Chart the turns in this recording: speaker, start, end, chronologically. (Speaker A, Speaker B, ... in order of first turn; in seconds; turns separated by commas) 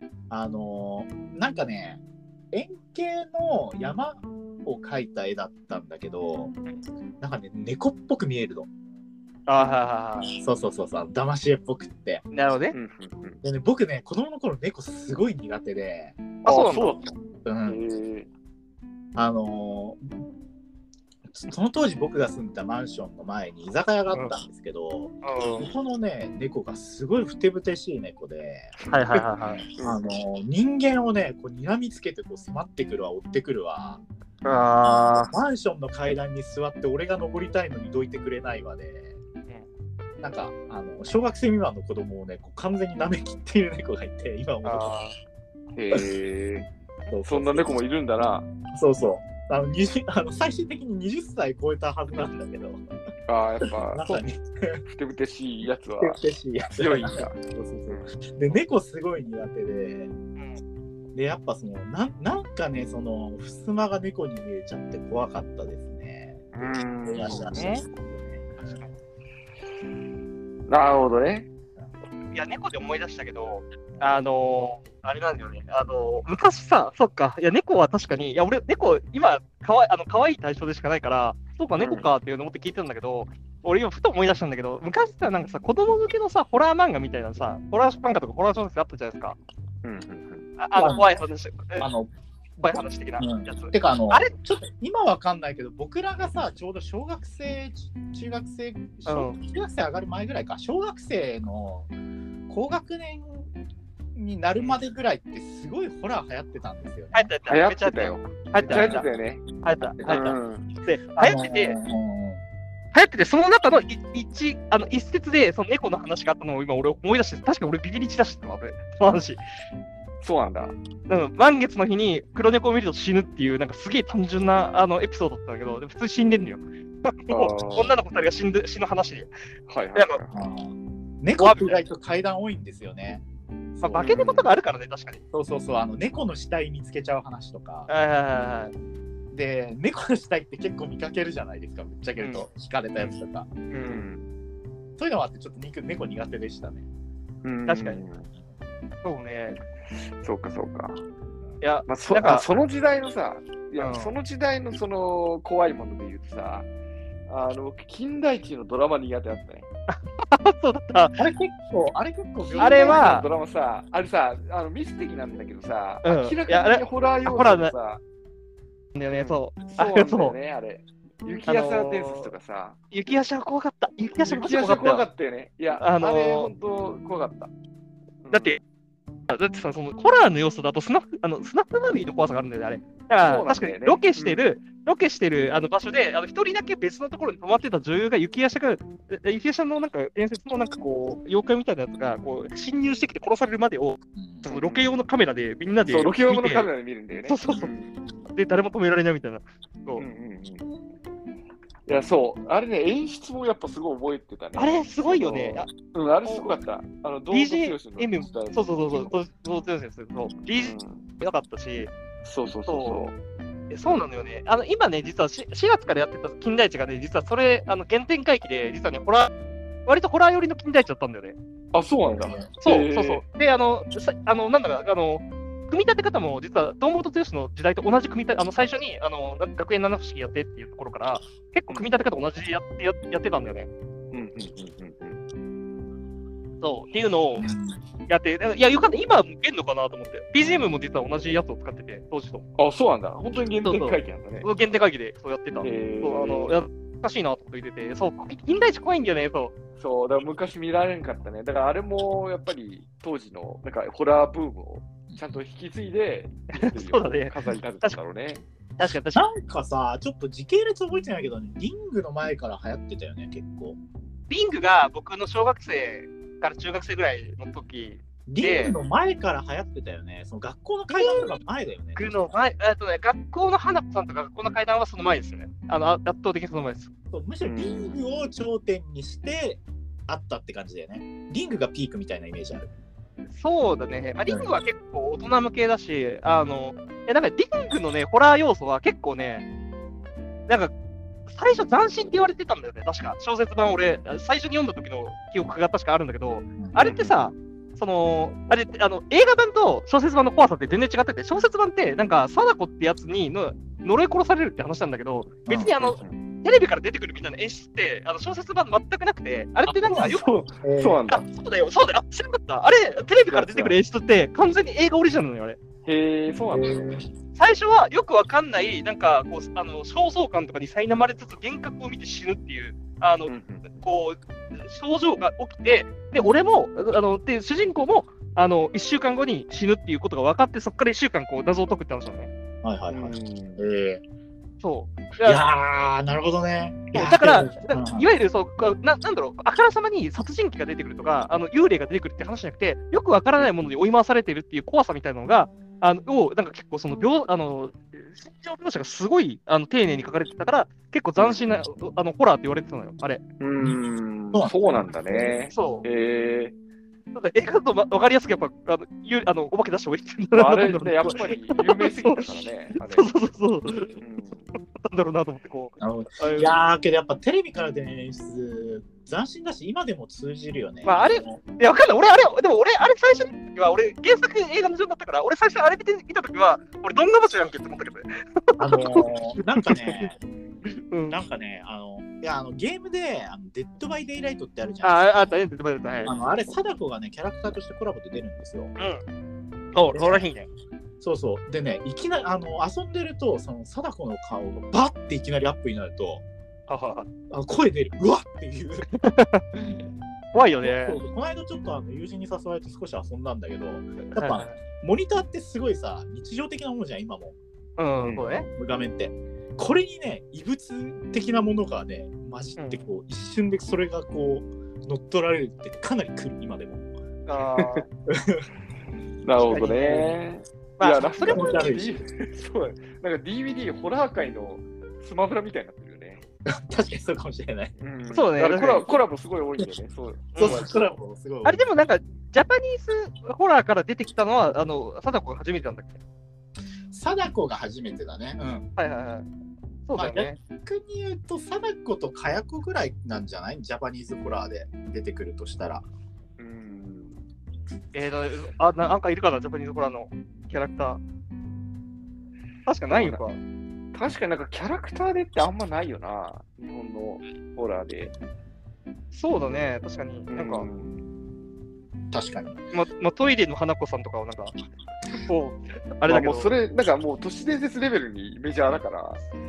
Speaker A: 0.3-6.5, Speaker A: 7.2-8.7, Speaker B: 9.5-10.3, Speaker A: 10.4-12.2, Speaker B: 12.3-12.7, Speaker C: 12.7-13.4, Speaker A: 13.4-16.2, Speaker B: 16.4-17.0, Speaker C: 16.4-18.3, Speaker A: 17.4-17.8, Speaker A: 19.1-20.1, Speaker A: 21.4-28.7, Speaker B: 25.2-25.7, Speaker B: 28.9-29.6, Speaker C: 29.8-30.1, Speaker A: 29.8-34.0, Speaker B: 34.4-35.3, Speaker A: 34.8-39.2, Speaker A: 40.2-44.9, Speaker B: 44.6-45.1, Speaker C: 45.7-46.7, Speaker A: 47.1-47.8, Speaker C: 47.2-48.5, Speaker A: 48.7-52.8, Speaker C: 53.3-54.2, Speaker A: 53.6-54.8, Speaker C: 54.9-56.2, Speaker A: 56.0-60.1, Speaker C: 56.7-58.1, Speaker A: 61.1-68.8, Speaker C: 66.5-67.5, Speaker B: 67.3-67.8, Speaker C: 70.7-71.5, Speaker B: 72.3-89.4, Speaker C: 81.8-82.1, Speaker C: 89.8-90.5, Speaker B: 90.6-91.9, Speaker A: 90.8-91.1, Speaker A: 91.8-92.1, Speaker B: 92.6-94.3, Speaker A: 93.2-101.9, Speaker B: 99.1-99.4, Speaker A: 102.5-103.5, Speaker A: 104.1-107.3, Speaker B: 107.1-109.1, Speaker C: 107.5-109.4, Speaker A: 108.6-109.2, Speaker B: 109.6-111.8, Speaker A: 110.0-110.4, Speaker C: 110.0-110.6, Speaker A: 111.2-112.4, Speaker B: 112.9-119.4, Speaker C: 120.2-120.7, Speaker B: 121.1-129.3, Speaker C: 127.3-128.0, Speaker C: 129.7-130.5, Speaker B: 129.9-130.2, Speaker A: 130.3-133.2, Speaker B: 131.3-131.8, Speaker A: 133.7-134.3, Speaker B: 133.8-135.2, Speaker C: 134.0-134.4, Speaker A: 135.3-137.9, Speaker B: 137.9-138.7, Speaker A: 139.3-143.5, Speaker B: 142.2-142.4, Speaker B: 143.7-144.0, Speaker C: 143.8-144.3, Speaker A: 145.0-146.8, Speaker C: 147.4-148.3, Speaker B: 147.7-148.0, Speaker B: 149.0-149.6, Speaker C: 150.2-151.0, Speaker B: 151.6-152.4, Speaker C: 151.9-156.7, Speaker B: 153.8-154.1, Speaker C: 157.3-159.7, Speaker B: 159.9-161.2, Speaker A: 161.2-163.2, Speaker C: 162.5-168.0, Speaker B: 162.6-163.3, Speaker B: 166.0-167.7, Speaker B: 168.9-170.3, Speaker C: 169.1-172.8, Speaker B: 171.5-172.3, Speaker B: 172.9-175.1, Speaker C: 174.2-177.5, Speaker B: 175.8-176.5, Speaker C: 178.2-178.6, Speaker B: 178.3-178.6, Speaker B: 179.3-196.7, Speaker C: 183.2-184.5, Speaker A: 194.1-194.5, Speaker C: 194.4-194.9, Speaker C: 195.8-198.0, Speaker B: 197.3-197.7, Speaker B: 198.3-200.0, Speaker C: 200.0-200.6, Speaker C: 201.8-209.1, Speaker B: 204.6-205.7, Speaker B: 206.2-206.6, Speaker B: 207.3-211.9, Speaker C: 210.6-211.0, Speaker C: 212.2-213.1, Speaker B: 212.7-213.0, Speaker B: 213.7-219.3, Speaker B: 219.8-221.4, Speaker C: 221.7-223.2, Speaker A: 222.1-222.5, Speaker B: 222.6-233.7, Speaker C: 234.1-235.2, Speaker B: 236.6-237.5, Speaker A: 237.4-237.8, Speaker B: 238.1-242.4, Speaker C: 242.6-244.5, Speaker B: 243.6-249.5, Speaker C: 245.6-246.6, Speaker C: 249.8-258.4, Speaker A: 255.1-255.4, Speaker B: 256.5-258.0, Speaker B: 258.8-259.3, Speaker A: 259.1-263.8, Speaker B: 264.3-268.7, Speaker A: 268.3-272.4, Speaker B: 270.9-271.3, Speaker B: 271.9-276.9, Speaker A: 277.1-282.7, Speaker C: 277.4-278.0, Speaker B: 283.3-289.5, Speaker A: 284.2-284.5, Speaker B: 290.5-290.7, Speaker B: 291.3-310.3, Speaker C: 296.8-297.1, Speaker A: 305.5-305.7, Speaker C: 305.8-306.2, Speaker A: 309.6-311.1, Speaker C: 309.9-311.2, Speaker B: 311.1-315.6, Speaker C: 313.3-313.8, Speaker C: 315.8-317.0, Speaker A: 316.5-317.1, Speaker B: 317.4-332.3, Speaker C: 323.3-323.8, Speaker A: 332.6-334.0, Speaker C: 332.9-333.6, Speaker B: 334.6-335.4, Speaker A: 335.2-338.1, Speaker B: 336.9-353.2, Speaker C: 351.2-351.4, Speaker C: 353.4-356.5, Speaker A: 355.1-355.3, Speaker B: 355.5-355.8, Speaker B: 357.1-362.2, Speaker C: 360.3-363.1, Speaker B: 362.8-364.0, Speaker C: 364.0-364.5, Speaker B: 364.7-366.6, Speaker A: 365.8-371.4, Speaker B: 370.8-379.6, Speaker A: 378.6-380.2, Speaker B: 380.9-381.2, Speaker A: 381.1-385.3, Speaker B: 384.8-386.1, Speaker A: 386.0-388.7, Speaker B: 388.8-389.0, Speaker B: 389.7-390.5, Speaker A: 389.9-390.3, Speaker A: 391.0-396.2, Speaker B: 396.7-397.1, Speaker A: 397.3-398.9, Speaker B: 399.0-399.4, Speaker B: 400.3-401.0, Speaker A: 400.6-407.4, Speaker B: 404.0-404.6, Speaker B: 407.8-408.5, Speaker A: 408.5-416.8, Speaker B: 412.6-412.9, Speaker B: 417.3-417.9, Speaker C: 417.6-417.8, Speaker A: 418.1-418.5, Speaker C: 419.2-426.2, Speaker B: 419.5-420.2, Speaker B: 420.8-421.7, Speaker A: 421.2-422.0, Speaker A: 426.5-427.7, Speaker C: 427.8-430.7, Speaker B: 428.1-428.9, Speaker B: 430.3-430.7, Speaker A: 430.4-431.6, Speaker B: 431.4-436.0, Speaker A: 436.9-438.7, Speaker B: 438.8-439.2, Speaker B: 439.9-440.4, Speaker A: 439.9-445.8, Speaker C: 446.4-447.2, Speaker B: 447.9-451.0, Speaker B: 452.6-453.4, Speaker C: 452.9-453.2, Speaker C: 453.9-458.1, Speaker B: 459.1-460.7, Speaker C: 460.3-461.0, Speaker A: 462.1-462.6, Speaker B: 462.7-464.5, Speaker B: 465.2-466.5, Speaker C: 466.1-469.2